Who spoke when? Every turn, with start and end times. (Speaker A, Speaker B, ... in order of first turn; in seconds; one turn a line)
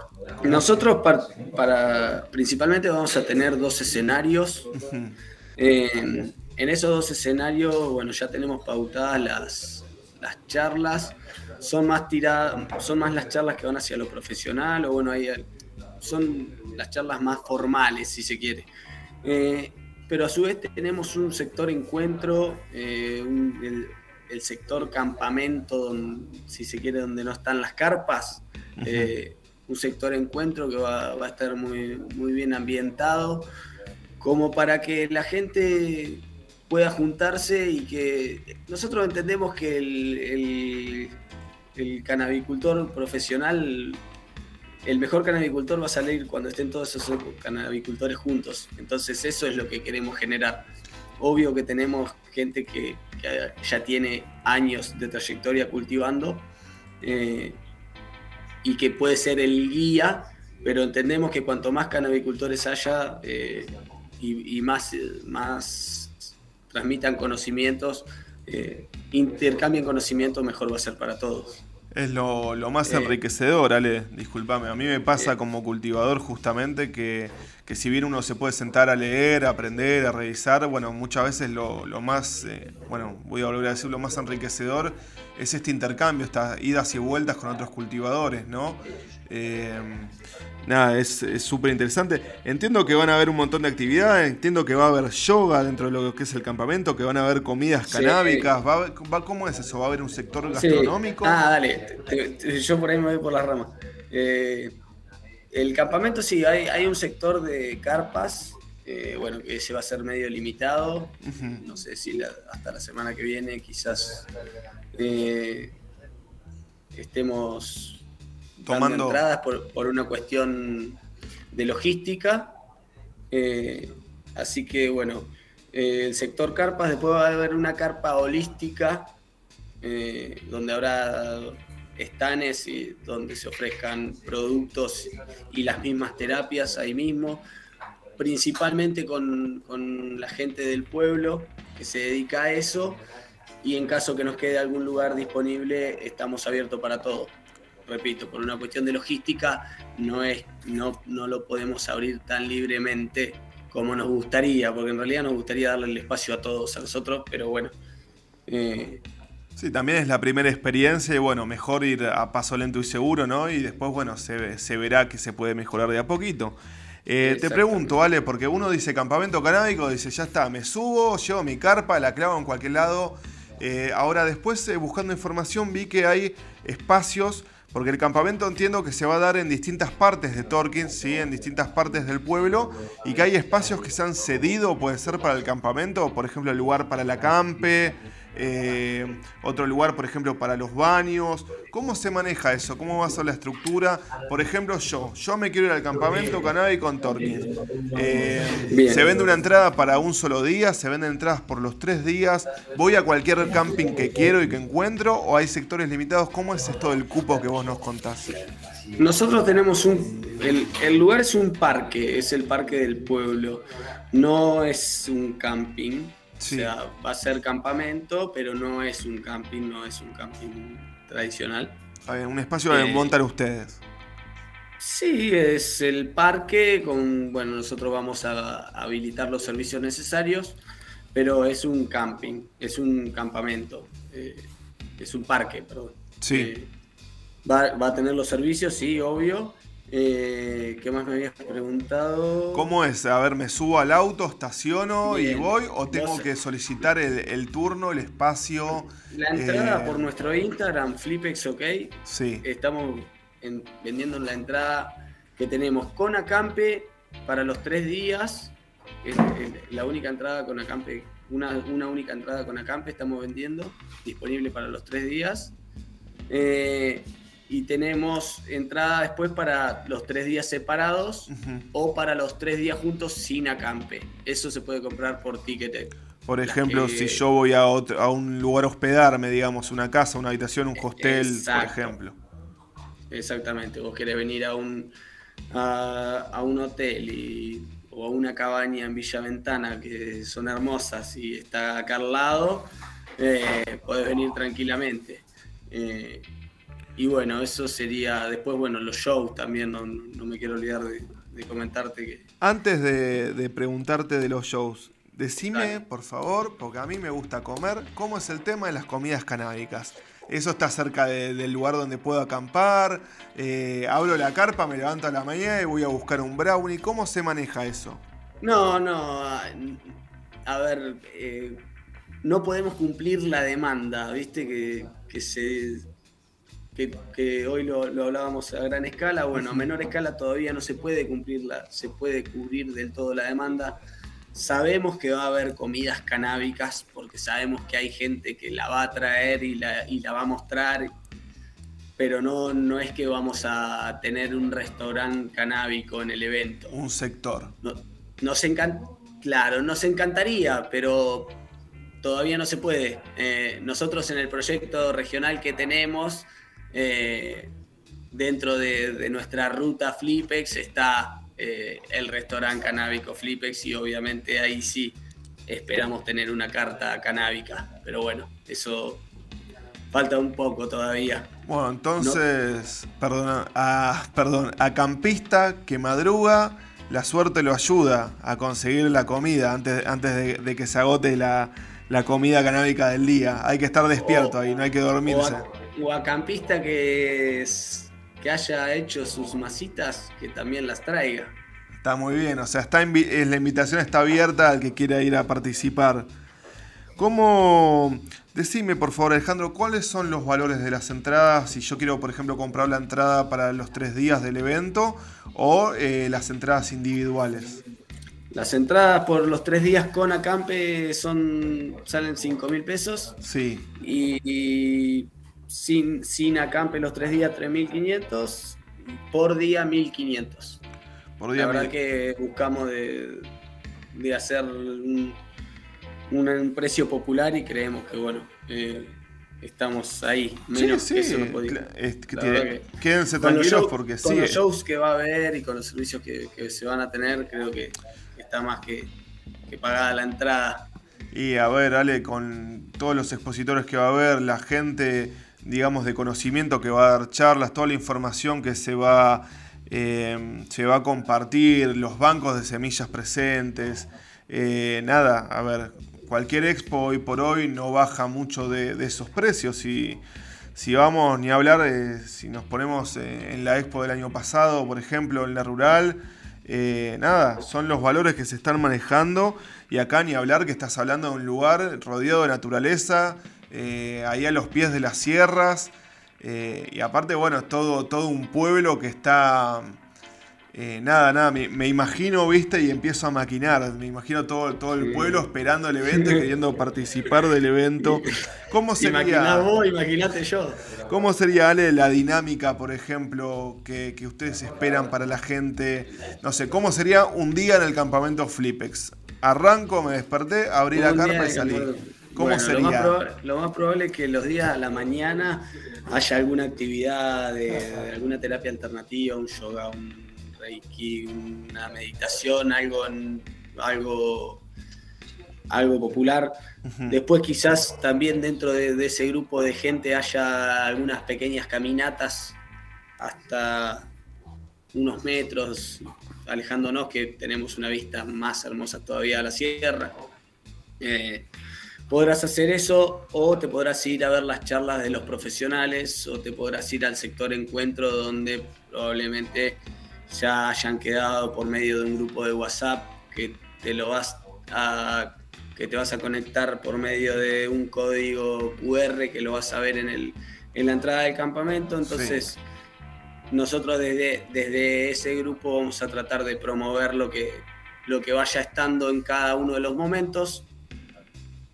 Speaker A: 0.4-4.7
Speaker B: 4.7-5.1
Speaker A: 5.6-15.5
Speaker A: 16.0-18.7
Speaker A: 19.2-33.5
Speaker B: 28.8-29.1
Speaker A: 34.2-41.2
Speaker A: 41.8-44.0
Speaker A: 44.8-50.7
Speaker A: 51.2-56.5
Speaker A: 57.0-57.6
Speaker A: 58.6-71.6
Speaker B: 71.9-90.1
Speaker A: 72.9-73.2
Speaker B: 90.7-101.4
Speaker A: 97.8-98.5
Speaker A: 100.5-104.8
Speaker A: 105.5-114.3
Speaker B: 111.2-111.6
Speaker A: 114.9-115.8
Speaker A: 116.9-118.0
Speaker A: 118.6-121.0
Speaker B: 118.7-119.2
Speaker A: 121.5-122.6
Speaker A: 123.3-129.2
Speaker A: 129.8-137.4
Speaker A: 138.2-143.0
Speaker A: 143.6-147.3
Speaker A: 147.9-157.7
Speaker A: 158.5-159.0
Speaker B: 159.6-208.5
Speaker A: 167.2-167.9
Speaker A: 198.7-199.2
Speaker A: 208.9-221.8
Speaker B: 216.4-216.7
Speaker B: 222.1-223.8
Speaker A: 222.7-223.2
Speaker A: 224.8-230.6
Speaker A: 231.1-236.7
Speaker B: 236.2-236.5
Speaker A: 237.4-242.7
Speaker B: 242.5-250.1
Speaker A: 245.0-246.3
Speaker A: 249.1-265.6
Speaker B: 252.1-252.4
Speaker A: 266.3-277.2
Speaker B: 271.3-271.6
Speaker B: 276.3-282.2
Speaker A: 280.8-281.9
Speaker A: 283.1-284.9
Speaker A: 285.5-296.3
Speaker A: 297.0-302.2
Speaker B: 302.4-318.0
Speaker A: 305.5-305.8
Speaker A: 318.4-319.9
Speaker A: 320.5-321.6
Speaker A: 322.2-325.9
Speaker A: 326.8-333.8
Speaker A: 334.3-340.9
Speaker A: 342.0-346.8
Speaker B: 346.7-347.5
Speaker A: 347.6-351.4
Speaker A: 352.0-357.5
Speaker A: 358.1-369.1
Speaker A: 369.9-371.3
Speaker B: 371.5-385.5
Speaker A: 384.0-384.3
Speaker A: 385.1-391.4
Speaker B: 391.8-396.1
Speaker B: 397.0-407.6
Speaker A: 408.3-413.2
Speaker B: 413.2-413.7
Speaker A: 413.8-420.6
Speaker B: 421.2-421.7
Speaker A: 421.4-423.3
Speaker A: 423.9-425.2
Speaker A: 426.1-431.6
Speaker B: 430.6-434.4
Speaker A: 432.1-438.9
Speaker A: 439.5-440.7
Speaker B: 441.1-460.0
Speaker B: 460.6-479.8
Speaker B: 480.5-489.5
Speaker A: 484.8-485.2
Speaker A: 485.9-486.2
Speaker A: 487.8-488.1
Speaker A: 488.8-490.8
Speaker B: 490.9-503.0
Speaker A: 500.7-514.5
Speaker A: 515.5-516.3
Speaker B: 516.7-517.0
Speaker A: 516.9-522.4
Speaker A: 523.0-523.9
Speaker A: 524.7-530.0
Speaker A: 530.8-531.3
Speaker A: 531.9-552.4
Speaker B: 551.8-552.2
Speaker A: 553.3-560.5